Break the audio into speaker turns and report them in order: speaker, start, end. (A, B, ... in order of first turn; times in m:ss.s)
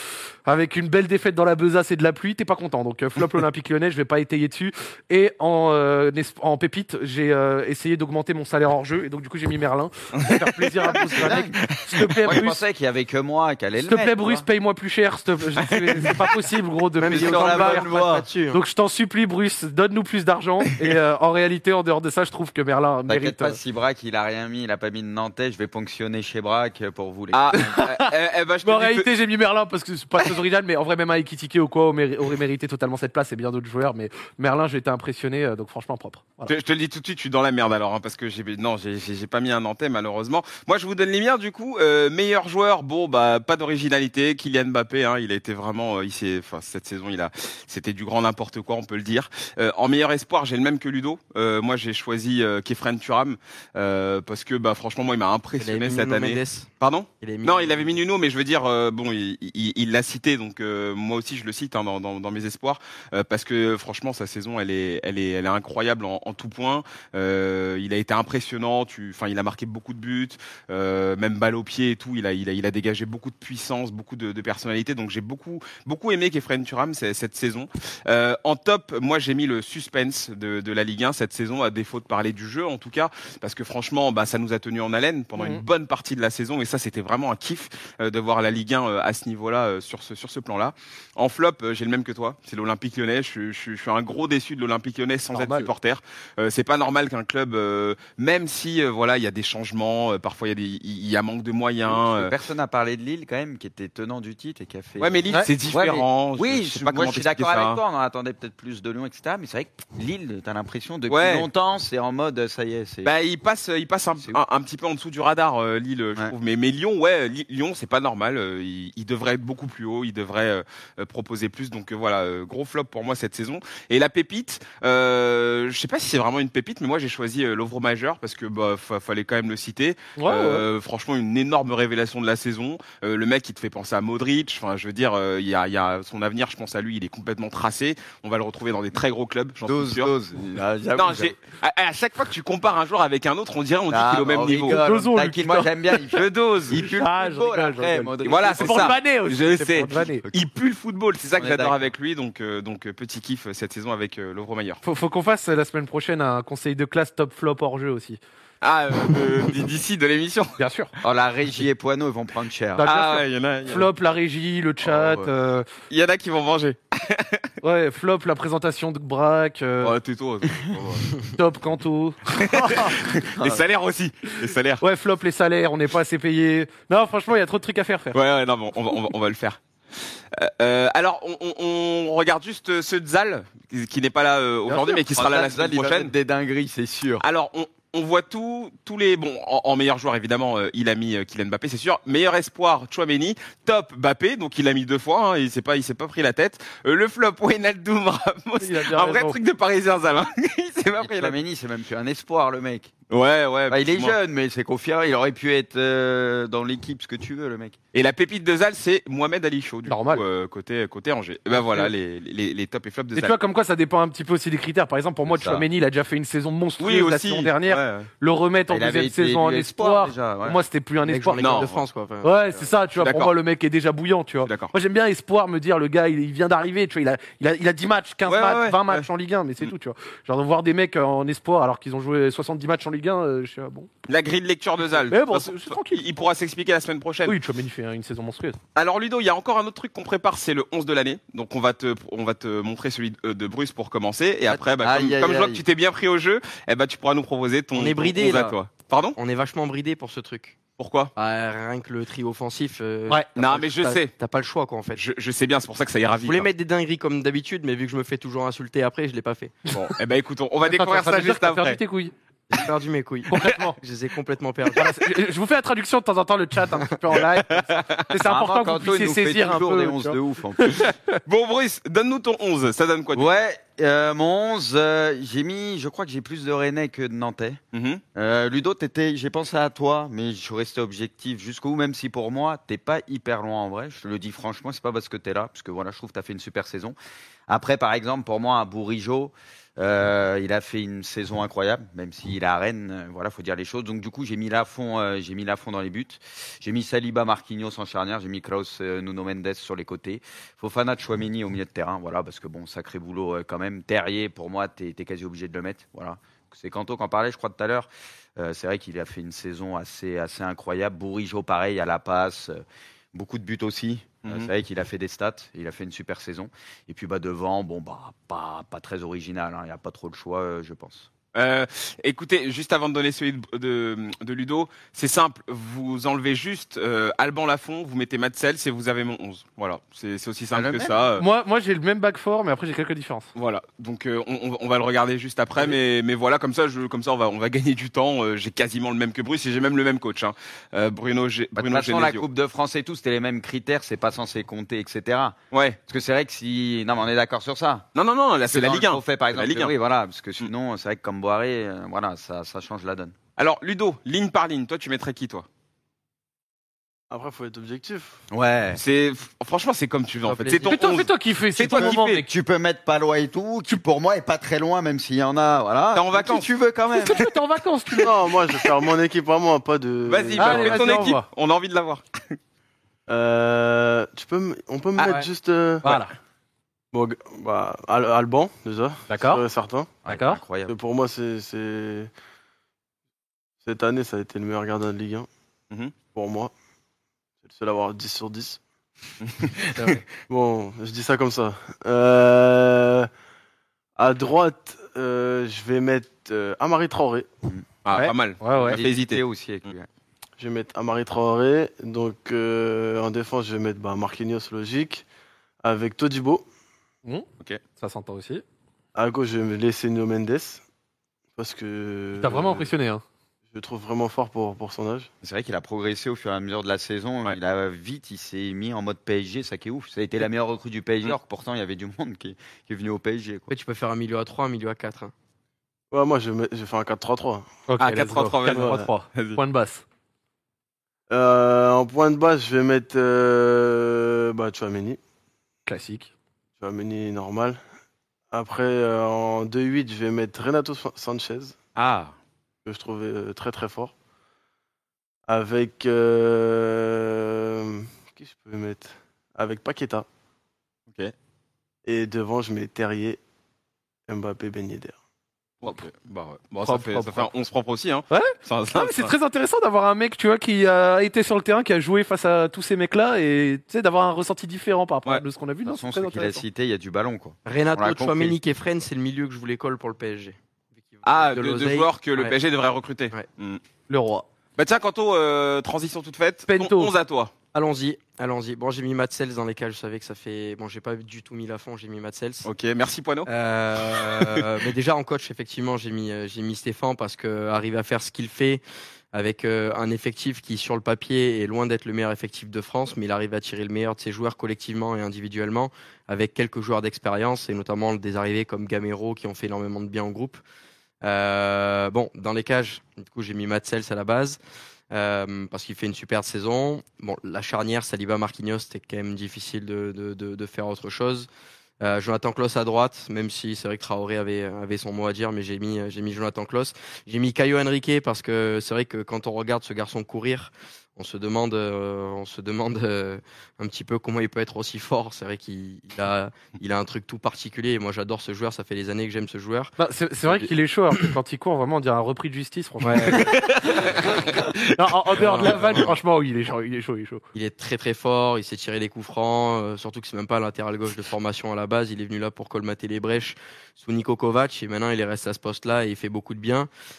0:00.4-0:12.6 A
0:10.2-0:12.4 B
0:10.9-0:11.6 C
0:12.2-0:14.4 C
0:13.8-0:17.9 A
0:15.7-0:16.2 B
0:17.0-0:18.6 D
0:17.0-0:18.3 C
0:18.5-0:23.6 A
0:23.1-0:27.8 C
0:27.3-0:29.1 B
0:27.5-0:36.5 A
0:36.5-1:42.3 B
0:55.6-0:56.7 D
0:57.2-0:58.0 D
1:25.4-1:25.6 A
1:35.3-1:35.7 A
1:41.9-1:53.1 C
1:45.0-1:47.8 B
1:51.1-1:51.5 B
1:53.0-2:20.1 B
2:10.2-2:10.6 A
2:19.7-2:21.3 C
2:20.9-2:24.8 B
2:23.9-2:29.0 C
2:24.7-2:25.9 A
2:26.1-2:26.9 B
2:26.9-2:30.2 A
2:28.2-2:34.8 B
2:31.4-2:31.8 C
2:34.8-2:38.2 A
2:38.6-2:40.6 B
2:40.6-2:40.9 A
2:41.0-2:42.8 C
2:42.8-2:45.7 A
2:42.8-2:43.9 B
2:44.8-2:45.3 C
2:45.9-2:47.5 B
2:47.6-2:49.9 A
2:49.8-2:51.1 B
2:51.3-2:53.0 A
2:52.4-2:54.8 B
2:54.8-2:58.2 A
2:58.1-3:06.1 B
3:04.7-3:07.2 C
3:07.2-3:21.4 B
3:18.6-3:19.4 A
3:21.0-3:22.9 C
3:23.1-3:24.2 B
3:23.7-3:27.8 C
3:27.9-3:33.3 B
3:29.9-3:30.2 A
3:33.2-3:41.6 A
3:35.3-3:35.6 C
3:36.8-3:38.1 B
3:38.7-3:40.6 C
3:41.0-3:42.6 D
3:41.4-3:41.8 B
3:42.2-3:53.9 A
3:43.0-3:43.3 B
3:44.4-3:44.7 B
3:48.3-3:49.0 B
3:54.1-3:57.4 B
3:55.1-3:56.0 A
3:57.2-3:58.6 A
3:58.7-4:09.2 B
4:04.5-4:05.6 C
4:07.7-4:08.6 D
4:09.2-4:10.6 D
4:10.8-4:11.1 B
4:11.2-4:15.0 D
4:13.4-4:14.1 B
4:15.0-4:16.4 B
4:16.2-4:19.6 D
4:19.7-4:21.8 B
4:20.7-4:22.1 A
4:22.5-4:24.9 D
4:23.3-4:23.8 A
4:24.7-4:31.1 A
4:27.7-4:28.0 B
4:28.2-4:30.9 C
4:31.2-4:33.4 B
4:33.1-4:37.6 C
4:37.7-4:38.0 B
4:38.1-4:47.0 C
4:47.5-5:21.1 C
5:21.3-5:31.2 B
5:30.5-5:31.1 C
5:31.2-5:33.3 A
5:33.4-5:42.2 B
5:41.6-5:47.8 C
5:45.5-5:45.8 B
5:48.0-5:49.7 B
5:48.5-5:53.1 C
5:53.4-5:55.4 B
5:57.1-5:58.2 E
5:58.3-5:58.8 C
5:58.7-6:02.2 B
6:00.2-6:00.8 D
6:00.6-6:02.3 A
6:01.8-6:07.2 C
6:05.9-6:06.5 B
6:06.9-6:08.2 A
6:08.0-6:11.0 E
6:10.1-6:12.4 B
6:10.4-6:11.2 A
6:13.1-6:15.9 E
6:15.8-6:16.1 A
6:16.9-6:20.0 E
6:19.1-6:19.4 A
6:20.0-6:20.8 C
6:20.0-6:20.4 A
6:20.7-6:22.1 E
6:23.6-6:25.3 E
6:26.1-6:26.5 E
6:27.4-6:28.6 E
6:29.2-6:29.9 B
6:30.1-6:33.1 E
6:34.0-6:37.3 E
6:37.8-6:39.2 B
6:37.9-6:38.8 A
6:38.6-6:39.9 C
6:40.4-6:45.0 E
6:45.6-6:46.4 E
6:47.8-6:48.4 A
6:48.9-6:50.6 E
6:51.3-6:52.7 E
6:52.2-6:53.0 A
6:53.5-6:55.1 E
6:55.2-7:03.5 C
7:03.5-7:05.1 D
7:05.9-7:07.5 E
7:07.7-7:09.8 A
7:07.8-7:09.4 B
7:08.4-7:08.9 E
7:11.1-7:15.0 E
7:15.6-7:16.1 A
7:16.6-7:17.6 E
7:18.3-7:21.5 E
7:21.8-7:22.1 B
7:22.6-7:23.9 E
7:25.3-7:30.1 E
7:31.8-7:33.2 E
7:34.1-7:35.0 E
7:35.6-7:39.1 B
7:36.6-7:37.3 A
7:38.1-7:46.4 A
7:45.6-7:48.3 C
7:47.4-7:52.4 D
7:51.0-7:53.6 B
7:53.9-7:54.2 A
7:54.6-7:57.3 B
7:56.5-7:56.9 A
7:57.5-8:02.5 D
8:02.4-8:03.3 B
8:03.2-8:08.6 D
8:03.9-8:04.5 B
8:09.1-8:20.4 D
8:21.0-8:24.4 D
8:24.9-8:31.3 D
8:31.8-8:49.7 D
8:49.8-8:57.2 A
8:52.8-8:53.3 D
8:53.1-8:53.8 B
8:55.1-8:56.0 D
8:57.3-9:06.7 D